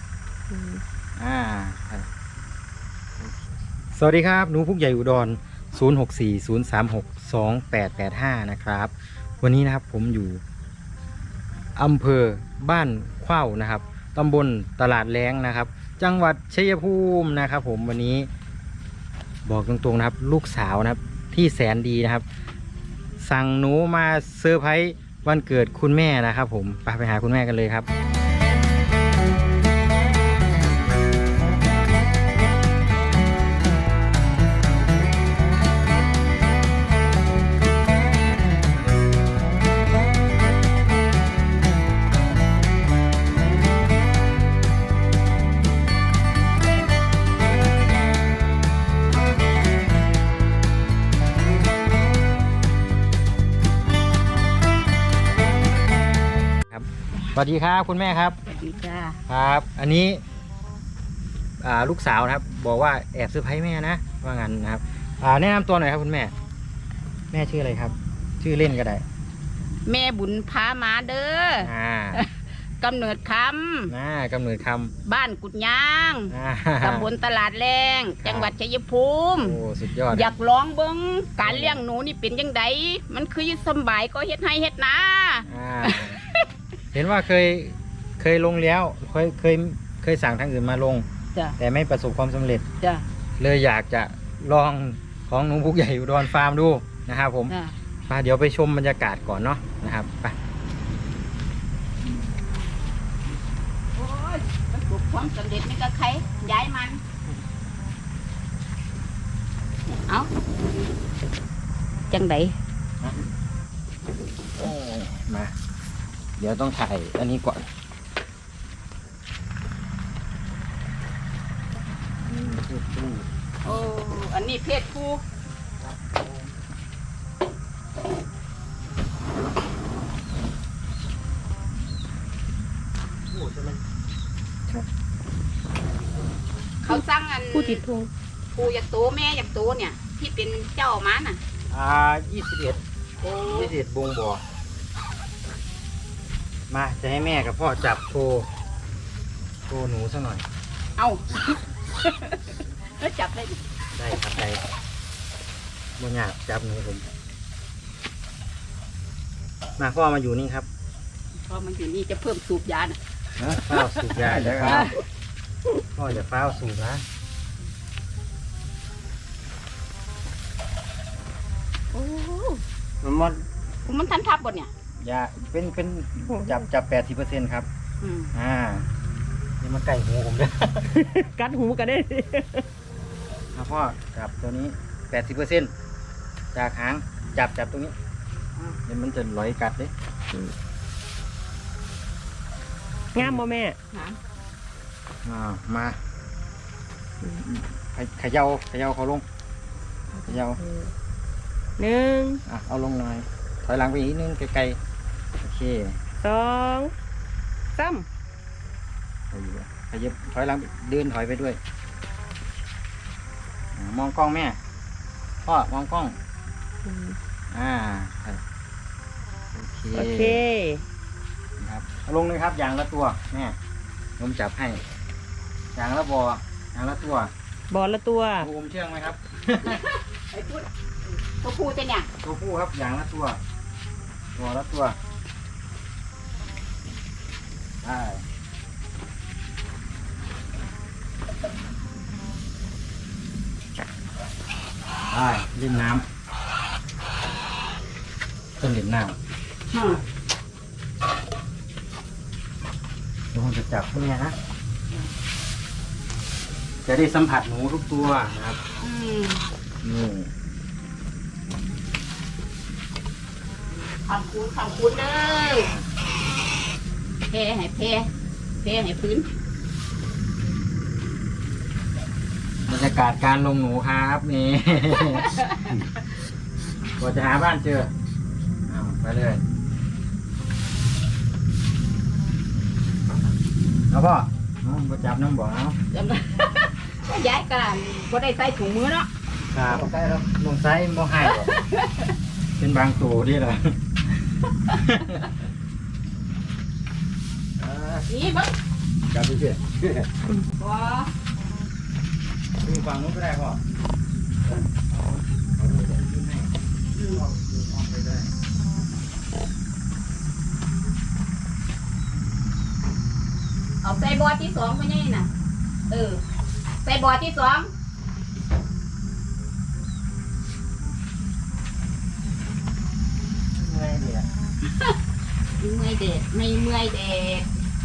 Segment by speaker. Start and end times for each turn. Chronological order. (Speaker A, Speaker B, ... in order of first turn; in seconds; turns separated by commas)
Speaker A: 0.5-0.8, Speaker B: 1.2-2.1, Speaker B: 3.9-10.4, Speaker B: 11.8-18.3, Speaker B: 19.4-22.2, Speaker B: 23.2-27.9, Speaker B: 56.7-58.4, Speaker C: 58.5-59.2, Speaker B: 59.3-60.2, Speaker B: 61.6-66.3, Speaker B: 67.3-69.0, Speaker C: 69.9-73.9, Speaker B: 71.6-72.2, Speaker B: 73.9-74.9, Speaker C: 75.0-79.6, Speaker B: 76.3-77.1, Speaker B: 78.2-78.5, Speaker B: 79.3-80.3, Speaker C: 80.1-86.4, Speaker B: 81.4-81.8, Speaker B: 85.4-86.2, Speaker B: 86.9-91.0, Speaker B: 91.6-92.6, Speaker B: 93.4-97.5, Speaker C: 97.5-97.7, Speaker B: 98.1-100.3, Speaker C: 102.0-102.7, Speaker C: 103.9-107.0, Speaker C: 109.9-110.3, Speaker C: 112.1-112.5, Speaker B: 114.6-115.5, Speaker B: 116.4-117.7, Speaker B: 122.2-123.7, Speaker C: 123.6-125.2, Speaker B: 125.8-126.5, Speaker B: 133.3-133.8, Speaker C: 136.8-137.8, Speaker A: 137.5-138.1, Speaker C: 138.5-141.4, Speaker B: 141.7-142.8, Speaker C: 143.2-143.7, Speaker B: 143.4-144.4, Speaker B: 146.7-148.5, Speaker B: 149.7-150.4, Speaker C: 151.0-153.6, Speaker B: 154.0-154.6, Speaker B: 156.0-157.1, Speaker B: 159.8-160.7, Speaker C: 161.4-163.0, Speaker B: 163.4-164.9, Speaker C: 163.7-165.0, Speaker B: 165.9-167.0, Speaker C: 171.9-172.6, Speaker C: 173.8-174.7, Speaker B: 175.0-177.7, Speaker A: 176.3-176.6, Speaker C: 178.0-178.3, Speaker B: 178.3-178.9, Speaker B: 179.6-181.2, Speaker A: 180.9-182.7, Speaker B: 183.5-185.7, Speaker B: 186.5-187.9, Speaker B: 188.9-189.9, Speaker A: 193.1-193.8, Speaker B: 193.2-193.5, Speaker C: 193.9-194.2, Speaker B: 195.2-196.0, Speaker B: 197.4-199.2, Speaker A: 200.1-200.9, Speaker B: 200.2-200.6, Speaker A: 201.8-202.4, Speaker B: 202.4-204.8, Speaker B: 205.4-206.0, Speaker A: 206.2-206.9, Speaker A: 207.7-208.1, Speaker B: 209.3-211.6, Speaker B: 213.7-214.6, Speaker B: 215.4-216.2, Speaker A: 216.8-217.2, Speaker B: 217.5-218.4, Speaker B: 219.5-220.4, Speaker A: 219.9-220.8, Speaker B: 221.6-223.6, Speaker B: 224.2-224.8, Speaker B: 225.7-227.3, Speaker A: 227.7-228.5, Speaker B: 228.4-229.8, Speaker C: 229.6-230.7, Speaker C: 231.2-232.1, Speaker B: 232.2-233.4, Speaker B: 234.3-235.0, Speaker B: 237.8-238.2, Speaker B: 245.1-246.1, Speaker B: 248.6-249.2, Speaker C: 249.7-250.0, Speaker B: 253.3-254.3, Speaker B: 256.8-258.6, Speaker C: 258.8-259.4, Speaker B: 259.8-260.3, Speaker C: 263.9-265.7, Speaker B: 265.4-265.9, Speaker C: 267.3-268.1, Speaker C: 268.6-269.3, Speaker B: 272.7-275.4, Speaker C: 275.2-275.8, Speaker B: 277.0-277.9, Speaker B: 278.7-279.4, Speaker B: 283.9-285.8, Speaker C: 285.9-289.1, Speaker B: 289.5-291.5, Speaker C: 291.2-292.1, Speaker B: 292.6-293.8, Speaker B: 294.6-295.3, Speaker B: 297.6-298.1, Speaker C: 298.1-298.5, Speaker B: 299.1-300.0, Speaker C: 300.6-301.1, Speaker B: 302.6-303.6, Speaker B: 305.0-308.3, Speaker C: 306.9-307.2, Speaker C: 313.8-315.3, Speaker C: 315.9-316.2, Speaker C: 316.8-317.7, Speaker B: 323.6-324.3, Speaker C: 325.6-327.5